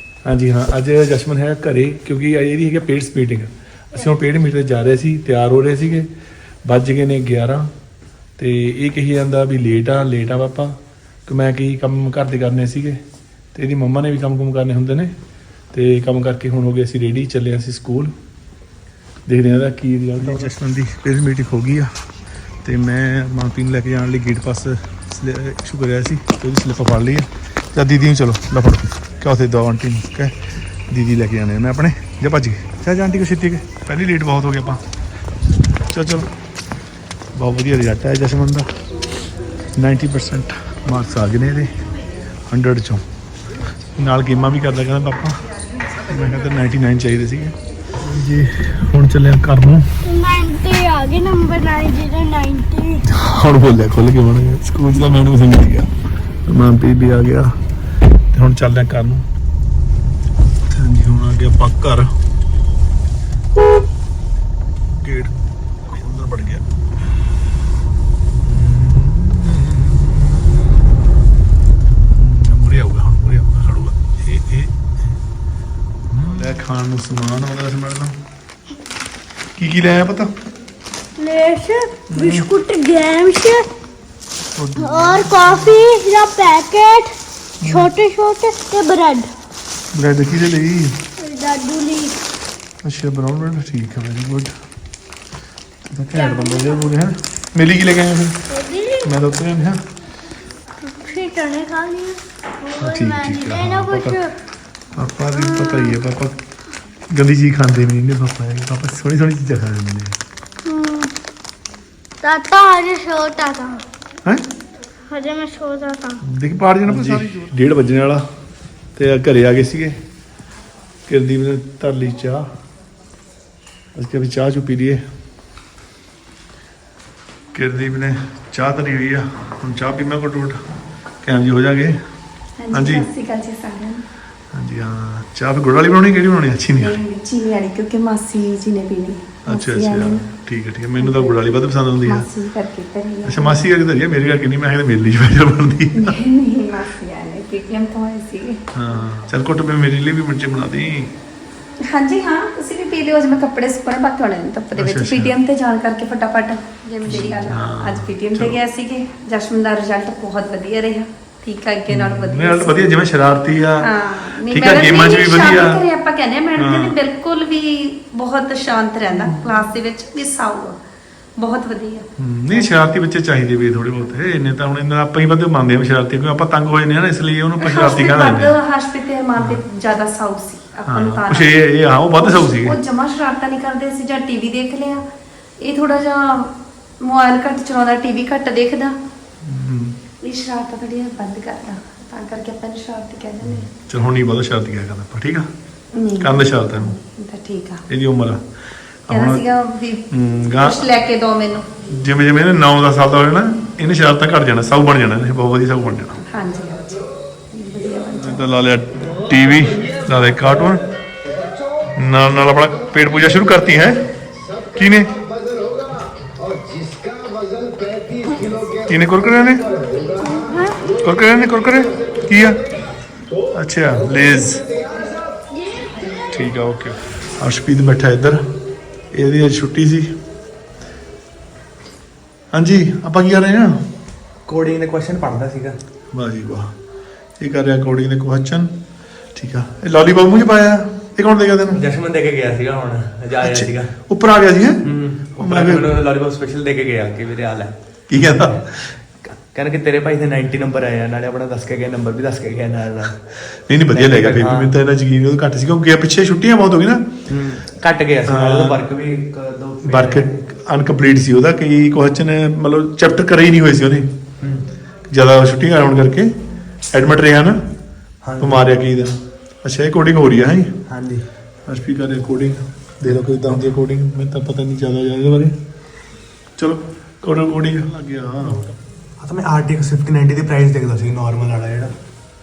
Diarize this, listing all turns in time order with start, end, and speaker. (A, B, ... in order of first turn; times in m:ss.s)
0:00.3-0:06.1 A
0:06.6-0:07.7 A
0:08.4-0:13.0 A
0:13.5-0:15.1 A
0:15.7-0:18.1 A
0:19.3-0:21.9 A
0:20.2-0:20.8 B
0:22.6-0:34.8 A
0:35.9-0:36.3 A
0:37.4-0:38.7 A
0:39.8-0:41.8 A
0:42.5-0:43.0 A
0:44.0-0:45.4 A
0:46.0-0:49.9 A
0:50.0-0:53.0 C
0:53.0-0:55.9 A
0:56.5-0:57.6 A
0:58.3-0:59.3 A
1:00.7-1:02.1 A
1:05.0-1:05.3 A
1:05.8-1:06.6 A
1:08.4-1:10.8 A
1:12.1-1:15.1 A
1:16.1-1:18.2 A
1:19.6-1:20.3 A
1:21.2-1:23.7 C
1:22.1-1:22.5 A
1:24.6-1:25.7 A
1:24.8-1:29.3 C
1:27.6-1:27.9 A
1:29.9-1:31.0 A
1:31.2-1:32.2 C
1:32.8-1:34.5 A
1:35.9-1:38.5 A
1:36.1-1:36.9 C
1:38.5-1:39.1 C
1:39.0-1:39.8 A
1:40.8-1:44.3 C
1:42.8-1:44.2 A
1:45.0-1:46.4 A
1:45.3-1:46.0 C
1:47.1-1:50.2 A
1:50.6-1:51.1 C
1:52.2-1:53.8 C
1:55.1-1:56.2 C
1:56.2-1:58.2 A
1:59.0-2:00.0 A
2:01.1-2:02.5 A
2:04.0-2:05.0 A
2:07.5-2:10.6 A
2:11.2-2:12.0 A
2:12.6-2:14.0 D
2:12.7-2:13.1 A
2:14.5-2:17.0 A
2:16.8-2:20.3 D
2:19.5-2:22.3 A
2:21.0-2:21.5 D
2:22.0-2:23.6 D
2:23.2-2:26.2 A
2:25.9-2:28.6 D
2:28.7-2:31.1 A
2:31.9-2:42.8 D
2:34.7-2:35.4 A
2:37.0-2:38.6 A
2:41.9-2:45.8 A
2:43.8-2:50.8 D
2:46.6-2:47.0 A
2:49.1-2:49.5 A
2:51.4-2:52.7 D
2:52.2-2:58.6 A
2:57.6-3:01.6 D
3:00.9-3:02.8 A
3:02.2-3:05.1 D
3:05.6-3:09.0 D
3:09.4-3:10.0 A
3:10.2-3:13.7 D
3:13.4-3:15.5 A
3:15.9-3:17.9 D
3:16.2-3:17.0 A
3:17.9-3:18.4 A
3:19.1-3:19.5 A
3:19.1-3:21.7 D
3:20.1-3:20.8 A
3:21.9-3:26.2 A
3:26.2-3:26.9 D
3:27.5-3:28.5 D
3:28.1-3:30.8 A
3:32.0-3:34.0 A
3:34.7-3:35.2 A
3:38.9-3:39.7 A
3:40.2-3:40.8 D
3:41.0-3:42.6 A
3:43.5-3:44.6 A
3:45.6-3:45.8 C
3:46.3-3:48.4 A
3:49.1-3:50.1 A
3:52.5-3:53.8 A
3:54.5-3:55.8 B
3:56.1-3:56.7 A
3:57.4-3:58.7 A
3:59.4-4:01.8 A
4:01.7-4:04.0 B
4:03.4-4:04.8 A
4:04.8-4:08.7 B
4:05.4-4:05.9 A
4:08.1-4:09.0 A
4:09.2-4:13.2 B
4:13.3-4:17.1 A
4:13.9-4:14.8 B
4:17.3-4:20.4 B
4:18.3-4:18.8 A
4:19.8-4:24.1 A
4:25.1-4:26.3 A
4:26.9-4:27.6 A
4:28.2-4:28.7 B
4:28.4-4:30.7 A
4:30.9-4:31.2 B
4:31.7-4:35.6 A
4:36.6-4:38.6 A
4:39.2-4:41.9 B